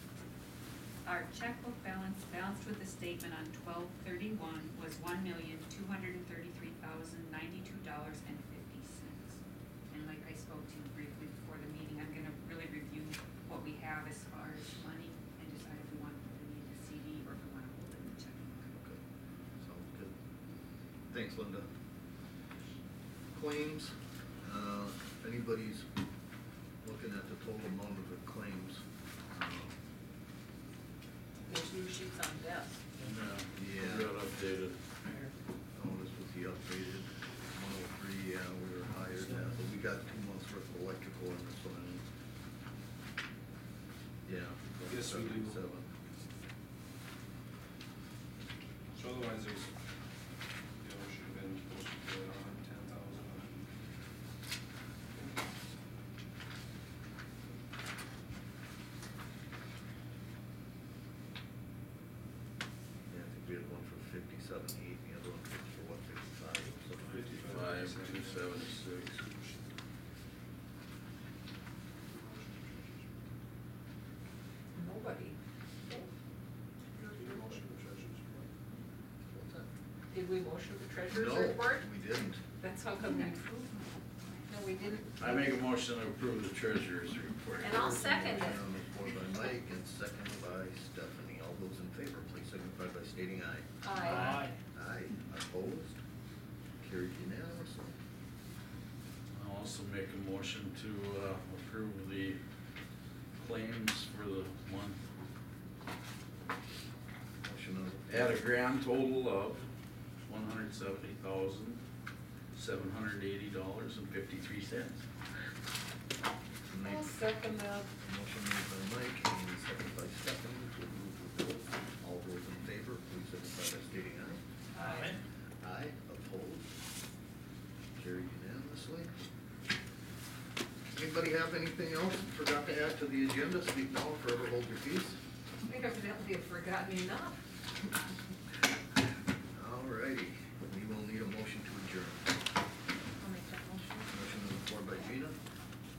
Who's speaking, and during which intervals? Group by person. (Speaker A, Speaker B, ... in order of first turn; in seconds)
Speaker A: 1.0-18.7, 82.9-84.4
Speaker B: 19.6-20.1, 21.1-21.6, 23.3-25.9, 26.8-29.7, 33.5-34.1, 35.7-42.0, 44.2-45.9, 63.1-67.5, 79.3-79.7, 81.1-82.4, 87.9-93.7, 94.7-96.0, 96.8-97.9, 107.4-108.3, 116.7-117.2, 118.0-124.4, 125.6-126.7, 128.0-129.1, 130.9-135.2, 139.5-142.3, 144.1-145.4
Speaker C: 31.5-32.8, 74.7-76.1, 77.0-77.6, 80.1-81.9, 82.6-83.4, 84.5-85.6, 87.6-88.6, 93.8-94.4, 116.8-117.9, 124.7-125.2, 135.6-137.4, 143.2-144.1
Speaker D: 33.0-34.8, 67.5-69.2, 85.2-88.4, 94.0-94.5, 99.3-102.4, 103.4-105.0, 108.1-109.7, 110.3-111.8, 112.5-115.0
Speaker E: 44.9-45.6, 48.9-49.7, 50.8-53.7, 55.1-55.4, 67.0-69.6, 72.0-73.1, 77.0-78.5